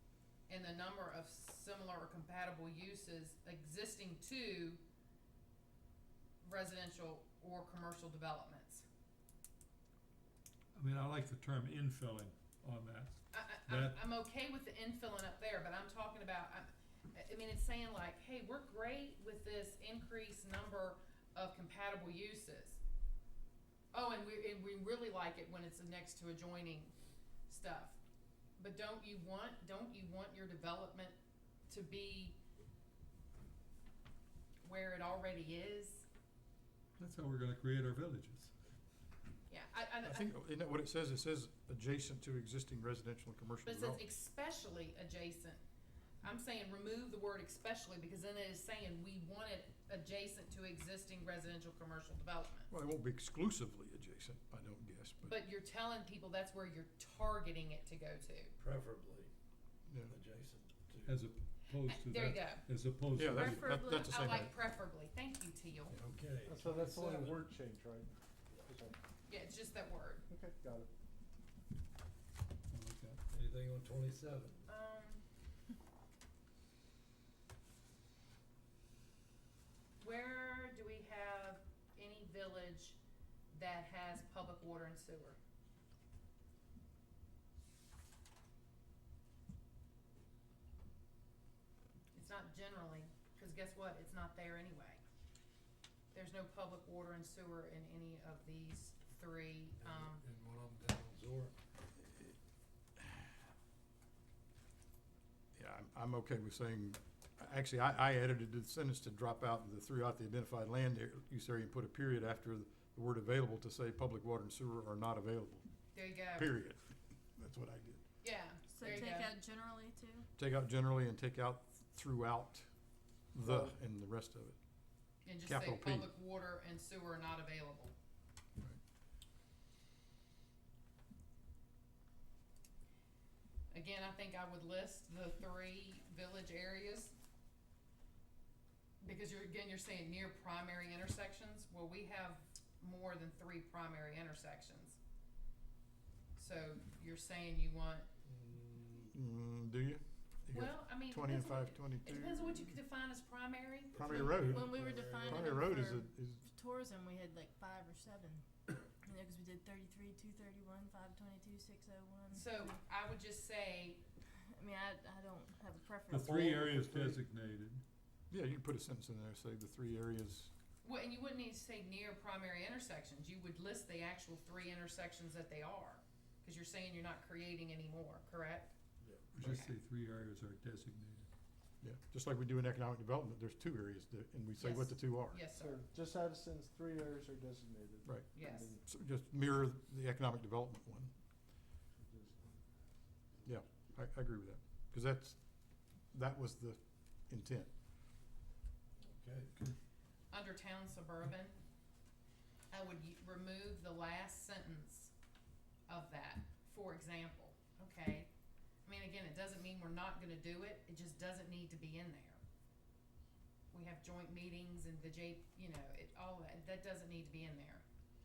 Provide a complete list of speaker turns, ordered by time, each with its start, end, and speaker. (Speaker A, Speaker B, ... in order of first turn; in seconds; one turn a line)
Speaker A: 0.5-4.8
Speaker A: 6.4-8.8
Speaker B: 10.7-14.0
Speaker A: 13.3-22.8
Speaker A: 23.9-26.9
Speaker A: 27.5-28.0
Speaker A: 28.6-31.1
Speaker A: 31.7-32.4
Speaker A: 34.6-36.1
Speaker B: 37.0-38.5
Speaker A: 39.5-40.3
Speaker C: 40.0-44.0
Speaker A: 43.6-45.6
Speaker A: 46.2-52.7
Speaker C: 52.7-55.3
Speaker A: 55.2-58.5
Speaker D: 58.6-59.3
Speaker C: 59.9-60.1
Speaker D: 60.1-61.2
Speaker B: 61.0-63.7
Speaker A: 61.8-62.6
Speaker C: 63.1-64.5
Speaker A: 63.3-66.0
Speaker D: 65.9-67.4
Speaker E: 66.4-68.1
Speaker E: 68.7-69.0
Speaker A: 69.2-70.2
Speaker E: 70.3-70.9
Speaker B: 72.7-73.2
Speaker D: 73.3-74.7
Speaker A: 74.7-75.2
Speaker A: 80.0-83.0
Speaker A: 83.5-85.4
Speaker A: 92.1-95.0
Speaker A: 96.1-100.2
Speaker D: 99.8-101.5
Speaker C: 102.0-102.3
Speaker C: 103.0-103.3
Speaker C: 105.5-115.7
Speaker A: 115.9-116.5
Speaker C: 116.3-118.0
Speaker A: 118.2-119.3
Speaker F: 118.7-120.3
Speaker C: 120.4-122.7
Speaker C: 123.3-124.6
Speaker E: 123.4-123.7
Speaker A: 125.2-127.9
Speaker C: 125.4-126.1
Speaker A: 133.7-137.2
Speaker A: 139.0-145.0
Speaker A: 146.3-148.1
Speaker D: 148.2-149.1
Speaker C: 149.1-152.8
Speaker A: 150.5-154.5
Speaker C: 153.9-156.4
Speaker F: 154.1-162.7
Speaker D: 154.5-155.1
Speaker E: 154.9-155.4
Speaker A: 162.3-164.0
Speaker F: 164.5-166.7
Speaker B: 166.1-167.8
Speaker E: 166.8-167.2
Speaker C: 168.3-170.5
Speaker A: 170.8-178.7
Speaker B: 179.3-181.3
Speaker A: 179.4-179.7
Speaker C: 181.8-185.4
Speaker A: 184.6-185.8
Speaker E: 185.6-188.8
Speaker C: 188.0-191.1
Speaker A: 188.3-188.7
Speaker E: 192.0-192.5
Speaker C: 193.4-195.4
Speaker C: 196.1-197.7
Speaker D: 199.0-199.7
Speaker A: 200.3-201.6
Speaker A: 202.7-205.1
Speaker A: 205.9-208.3
Speaker A: 208.8-212.4
Speaker A: 213.7-217.8